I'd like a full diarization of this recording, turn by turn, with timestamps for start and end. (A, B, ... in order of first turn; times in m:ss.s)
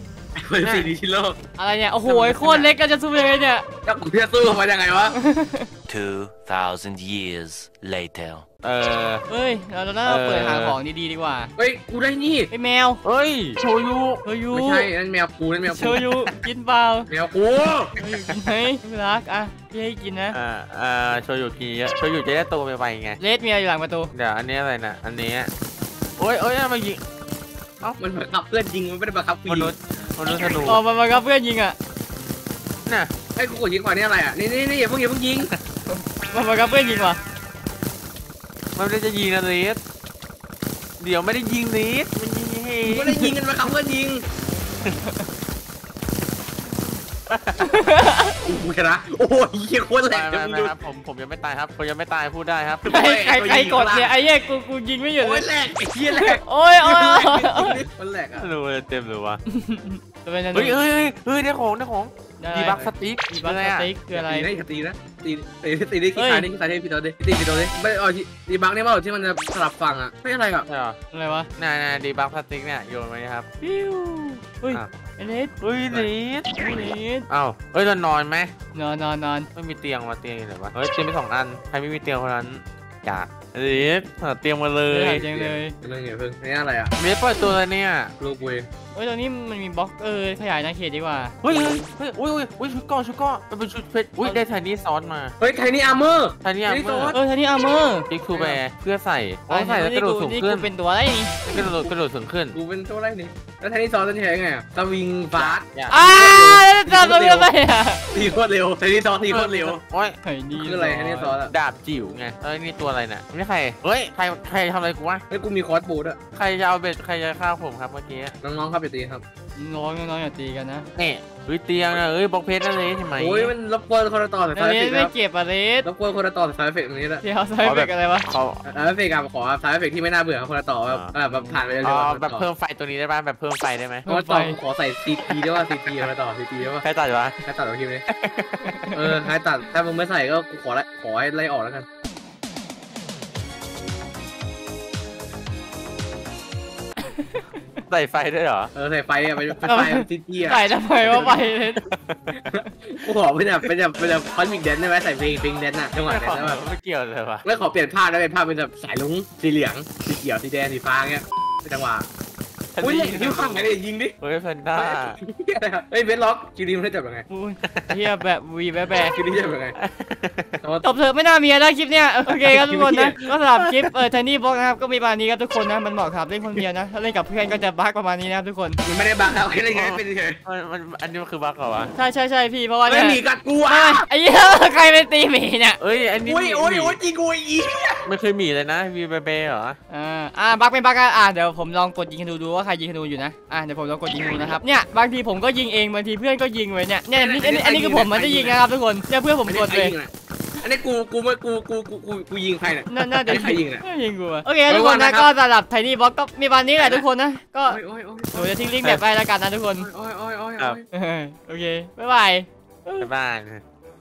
0:00.4-0:01.4 A
0:00.6-0:00.9 B
0:01.6-0:03.6 C
0:02.1-0:02.6 A
0:02.1-0:02.7 B
0:03.8-0:05.2 A
0:05.1-0:05.7 C
0:05.9-0:08.4 D
0:08.6-0:09.2 B
0:09.3-0:11.5 C
0:10.0-0:10.8 B
0:11.6-0:12.5 A
0:12.5-0:13.0 C
0:13.0-0:14.2 B
0:14.2-0:14.9 C
0:14.5-0:16.1 A
0:15.7-0:17.1 C
0:17.1-0:18.0 A
0:18.0-0:20.4 C
0:20.3-0:23.2 B
0:23.2-0:24.1 C
0:24.1-0:25.5 B
0:26.2-0:27.0 B
0:28.0-0:29.7 A
0:29.5-0:30.8 B
0:30.6-0:31.8 C
0:33.3-0:35.5 A
0:35.9-0:37.2 C
0:38.8-0:39.8 B
0:41.0-0:43.2 B
0:42.9-0:44.2 A
0:47.3-0:47.7 B
0:47.6-0:48.4 C
0:48.4-0:50.8 A
0:50.1-0:52.9 B
0:52.8-0:54.1 A
0:52.9-0:55.5 C
0:55.2-0:58.5 A
0:56.1-0:57.8 C
0:58.4-0:59.4 B
0:59.5-1:00.8 C
1:00.5-1:03.9 B
1:02.4-1:04.5 C
1:04.1-1:10.7 A
1:06.2-1:06.5 C
1:10.7-1:11.0 B
1:11.1-1:11.5 C
1:11.6-1:13.5 B
1:13.6-1:15.5 C
1:15.6-1:16.5 B
1:16.5-1:17.3 C
1:17.3-1:18.5 B
1:18.7-1:19.5 C
1:19.6-1:25.4 B
1:24.9-1:25.7 C
1:25.3-1:26.9 A
1:27.0-1:28.1 B
1:28.2-1:28.7 A
1:28.9-1:31.5 C
1:31.4-1:35.3 B
1:31.5-1:31.8 A
1:35.4-1:37.2 A
1:36.4-1:37.2 B
1:37.1-1:38.1 C
1:38.1-1:40.7 B
1:38.3-1:38.6 A
1:39.5-1:41.8 C
1:41.5-1:42.6 B
1:42.5-1:47.5 A
1:45.4-1:46.0 B
1:45.9-1:48.0 C
1:48.1-1:49.8 A
1:49.3-1:50.2 B
1:50.2-1:51.3 C
1:50.6-1:51.6 A
1:51.5-1:55.2 B
1:55.3-1:56.2 A
1:56.3-1:58.4 B
1:58.4-1:59.2 A
1:59.6-2:00.9 C
2:01.0-2:03.5 B
2:03.2-2:05.1 A
2:04.5-2:05.9 C
2:05.8-2:07.2 A
2:07.2-2:08.3 C
2:07.6-2:08.6 B
2:08.6-2:12.5 A
2:10.9-2:14.1 B
2:14.1-2:14.6 C
2:14.1-2:16.8 A
2:16.8-2:17.4 B
2:17.4-2:18.1 A
2:18.1-2:18.8 B
2:18.6-2:19.0 C
2:18.9-2:21.9 A
2:27.1-2:27.5 C
2:27.9-2:28.7 B
2:28.8-2:31.2 A
2:29.6-2:31.8 C
2:31.0-2:32.2 B
2:32.3-2:32.6 C
2:32.5-2:36.6 A
2:36.0-2:37.4 B
2:37.4-2:42.1 A
2:42.8-2:45.2 B
2:42.8-2:44.2 A
2:44.8-2:47.3 A
2:47.3-2:49.2 C
2:47.6-2:48.0 B
2:49.1-2:49.8 A
2:49.8-2:50.6 B
2:50.6-2:50.9 A
2:50.8-2:58.8 C
2:52.3-2:53.2 A
2:58.8-3:00.4 A
2:59.7-3:01.9 B
3:01.9-3:05.8 C
3:02.9-3:04.1 A
3:05.8-3:07.0 B
3:06.2-3:08.1 A
3:08.0-3:09.8 B
3:09.9-3:20.0 C
3:17.1-3:18.6 A
3:19.5-3:20.1 A
3:20.6-3:23.8 A
3:22.9-3:27.8 C
3:24.7-3:25.3 A
3:26.8-3:27.0 A
3:27.7-3:28.5 A
3:28.3-3:29.9 C
3:29.8-3:30.9 A
3:30.9-3:33.1 C
3:33.0-3:33.6 B